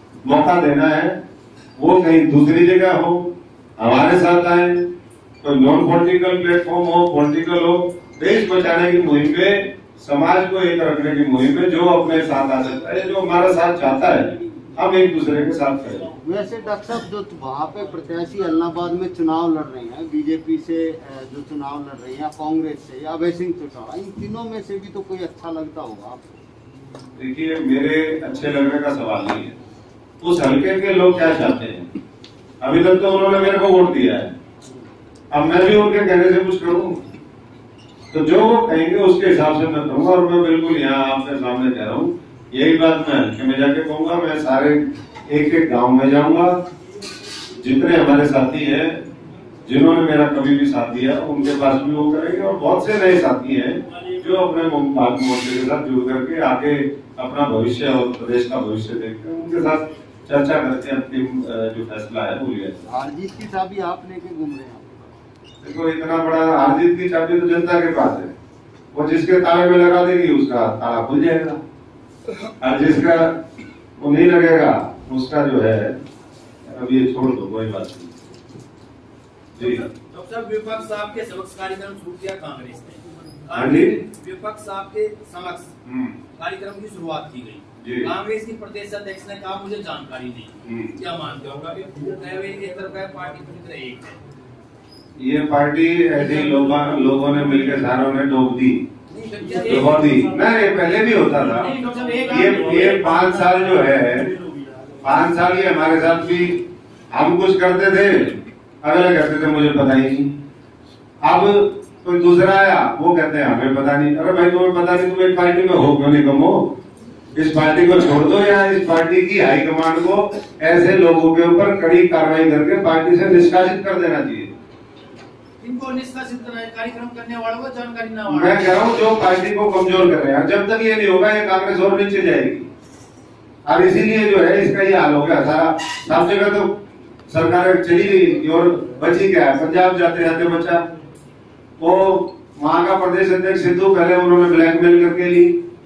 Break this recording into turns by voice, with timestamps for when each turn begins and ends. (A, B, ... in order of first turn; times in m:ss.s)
0:00.2-0:01.2 A
0:01.8-0:04.9 A
0:05.4-0:16.1 A
0:16.2-0:26.3 B
0:27.2-0:29.6 A
0:30.2-0:31.9 A
0:32.6-0:34.4 A
0:35.3-0:37.0 A
0:38.1-0:46.6 A
0:47.6-0:49.0 A
0:49.6-1:02.9 A
1:02.9-1:05.1 B
1:05.6-1:08.3 A
1:08.9-1:11.6 A
1:12.6-1:13.4 A
1:14.0-1:16.0 A
1:16.6-1:18.2 A
1:19.6-1:19.9 A
1:19.6-1:25.7 C
1:23.5-1:24.0 A
1:25.8-1:26.2 A
1:26.3-1:34.2 C
1:27.8-1:28.1 A
1:30.6-1:31.0 A
1:35.2-1:38.8 A
1:39.1-1:40.5 C
1:39.6-1:41.7 A
1:41.4-1:43.8 C
1:42.3-1:44.3 A
1:45.0-1:50.4 A
1:51.2-1:56.7 A
1:57.4-2:04.5 A
2:05.6-2:09.0 C
2:08.3-2:12.7 A
2:13.7-2:16.8 A
2:17.3-2:20.9 A
2:21.8-2:25.6 A